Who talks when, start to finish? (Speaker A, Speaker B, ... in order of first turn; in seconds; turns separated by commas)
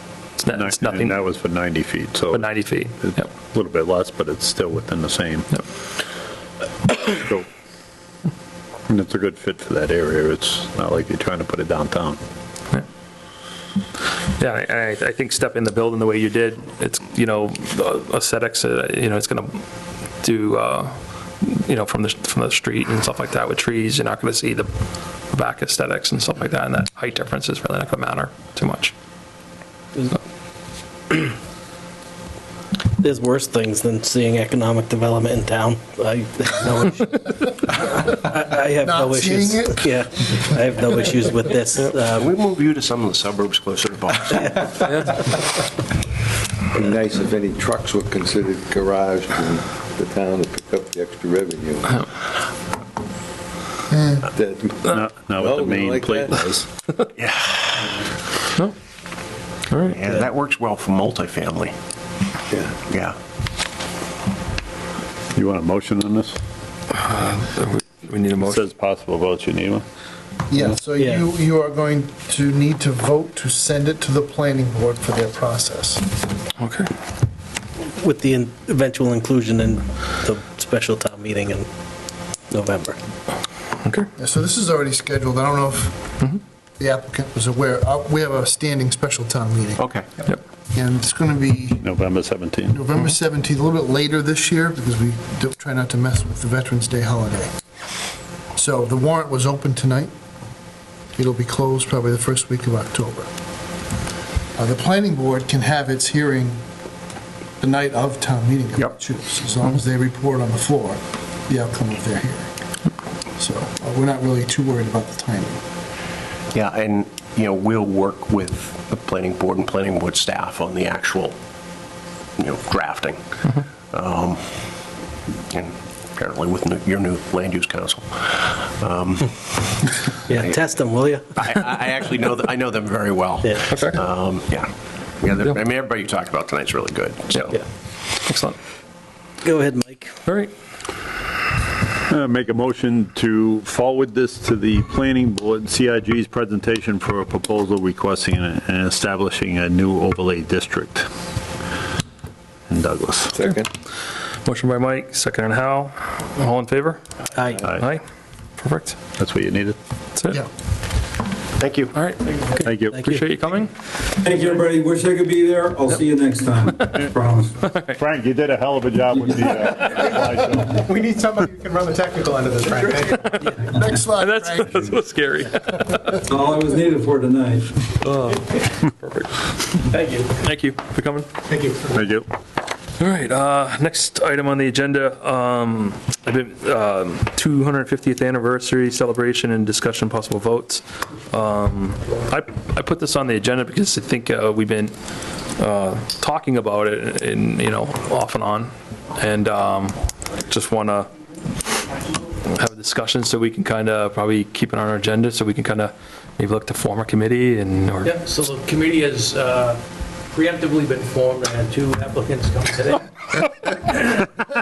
Speaker A: 0.3-1.2, Speaker B: 0.5-5.5, Speaker A: 2.3-3.3, Speaker B: 7.0-7.5, Speaker B: 8.9-12.2, Speaker A: 14.4-19.6, Speaker A: 20.2-24.7, Speaker A: 25.3-28.9, Speaker C: 33.0-42.3, Speaker D: 38.8-40.4, Speaker E: 42.0-44.8, Speaker A: 44.9-45.2, Speaker F: 46.7-52.1, Speaker D: 53.9-54.3, Speaker F: 54.3-56.4, Speaker B: 54.8-56.6, Speaker E: 57.1-57.9, Speaker A: 59.7-60.0, Speaker E: 59.9-61.7, Speaker F: 62.5-62.8, Speaker E: 62.9-63.1, Speaker B: 65.3-66.4, Speaker A: 67.0-68.6, Speaker B: 68.4-69.8, Speaker D: 70.5-76.0, Speaker C: 71.0-71.2, Speaker A: 76.6-76.9, Speaker C: 77.8-81.7, Speaker C: 82.5-83.0, Speaker A: 83.8-84.1, Speaker D: 84.2-86.2, Speaker D: 86.8-89.9, Speaker E: 89.8-90.0, Speaker D: 90.7-91.9, Speaker B: 91.8-92.8, Speaker D: 92.7-97.5, Speaker D: 98.5-100.1, Speaker D: 101.2-103.3, Speaker D: 104.6-106.6, Speaker D: 107.6-112.5, Speaker D: 113.4-115.6, Speaker E: 116.5-121.3, Speaker E: 122.4-123.2, Speaker E: 123.9-124.5, Speaker E: 125.5-129.9, Speaker C: 130.3-131.2, Speaker E: 131.4-137.6, Speaker A: 133.7-134.0, Speaker A: 138.1-138.6, Speaker C: 139.4-140.1, Speaker A: 140.2-140.5, Speaker B: 142.1-151.1, Speaker B: 152.7-153.3, Speaker F: 153.3-153.7, Speaker A: 154.4-157.0, Speaker A: 157.7-158.0, Speaker A: 158.6-159.0, Speaker B: 159.2-159.8, Speaker A: 160.1-160.4, Speaker E: 161.6-161.9, Speaker A: 161.9-163.7, Speaker B: 162.6-163.0, Speaker C: 162.9-163.2, Speaker G: 164.2-167.6, Speaker A: 167.6-167.9, Speaker B: 167.8-170.8, Speaker G: 169.2-170.0, Speaker D: 170.9-174.9, Speaker A: 173.1-173.5, Speaker A: 174.2-176.2, Speaker G: 176.3-177.8, Speaker A: 178.0-179.4, Speaker H: 179.9-180.3, Speaker A: 180.4-181.3, Speaker B: 181.9-182.2, Speaker A: 183.0-194.9, Speaker A: 195.6-201.1, Speaker A: 202.4-208.1, Speaker H: 208.0-213.1